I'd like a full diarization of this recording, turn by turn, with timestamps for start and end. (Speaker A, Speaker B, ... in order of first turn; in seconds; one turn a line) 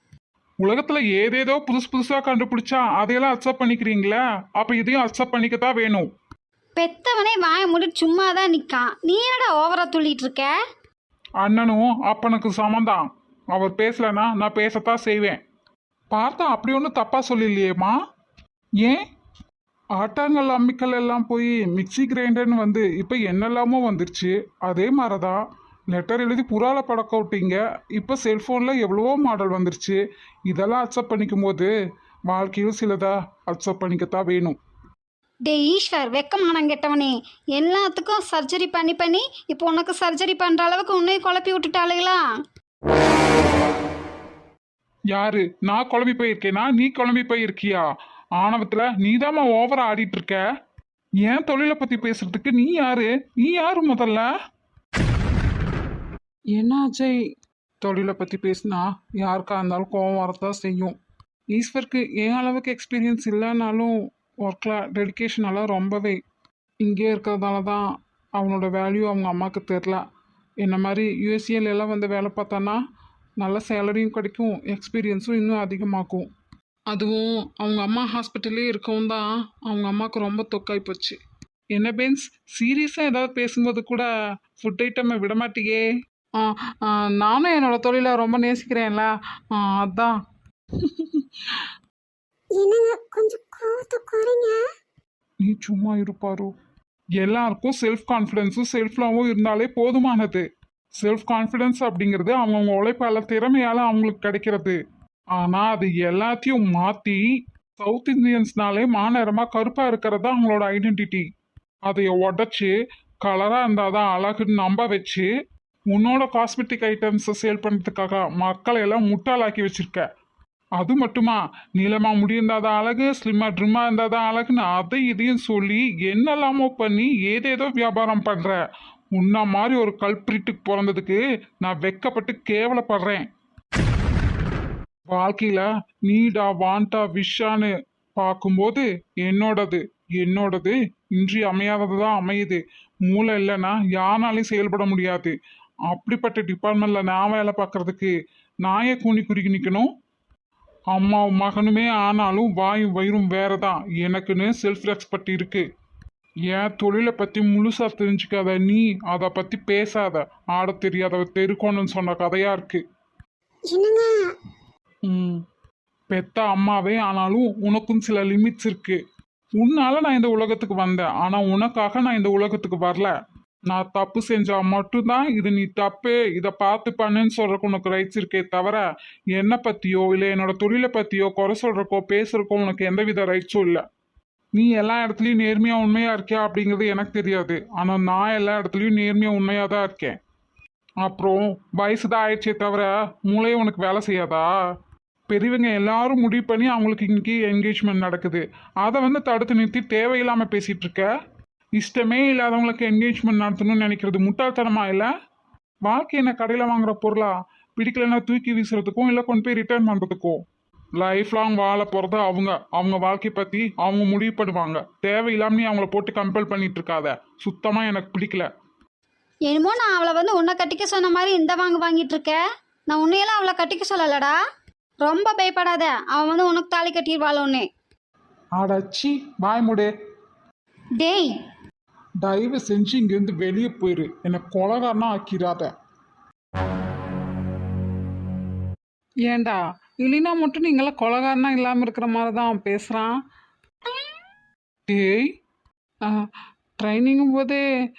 Speaker A: 0.6-6.1
Speaker B: 6.8-10.5
Speaker A: 11.4-15.4
Speaker A: 16.1-18.0
Speaker A: 20.0-31.7
Speaker A: 32.3-34.6
Speaker B: 35.5-42.2
Speaker A: 45.1-47.9
Speaker A: 48.4-50.4
Speaker A: 51.2-54.3
Speaker A: 56.5-57.2
Speaker A: 57.8-61.0
Speaker A: 61.5-66.2
Speaker A: 66.8-70.0
Speaker A: 70.6-72.8
Speaker A: 73.4-76.3
Speaker A: 76.9-81.2
Speaker A: 81.7-85.8
Speaker A: 86.4-90.2
Speaker A: 90.7-91.7
Speaker C: 92.6-94.6
Speaker A: 95.4-96.5
Speaker A: 97.2-100.5
Speaker A: 101.0-104.8
Speaker A: 105.3-107.2
Speaker A: 107.8-111.3
Speaker A: 111.8-115.3
Speaker A: 115.9-120.0
Speaker A: 120.8-128.6
Speaker A: 129.1-133.3
Speaker A: 135.1-145.3
Speaker A: 145.9-149.9
Speaker A: 150.9-155.7
Speaker A: 156.5-162.8
Speaker C: 163.7-164.3
Speaker A: 165.1-165.4
Speaker A: 166.1-169.0
Speaker A: 169.6-173.1
Speaker A: 173.7-178.8
Speaker A: 179.3-183.8
Speaker A: 184.6-190.2
Speaker A: 191.0-194.5
Speaker A: 195.3-201.1
Speaker A: 201.8-205.1
Speaker A: 205.8-210.4
Speaker A: 211.0-218.5
Speaker B: 219.5-224.4
Speaker B: 225.0-227.7
Speaker A: 228.6-229.9
Speaker B: 231.0-231.3
Speaker A: 232.2-235.7
Speaker A: 239.3-243.1
Speaker A: 244.9-245.3
Speaker A: 246.0-247.6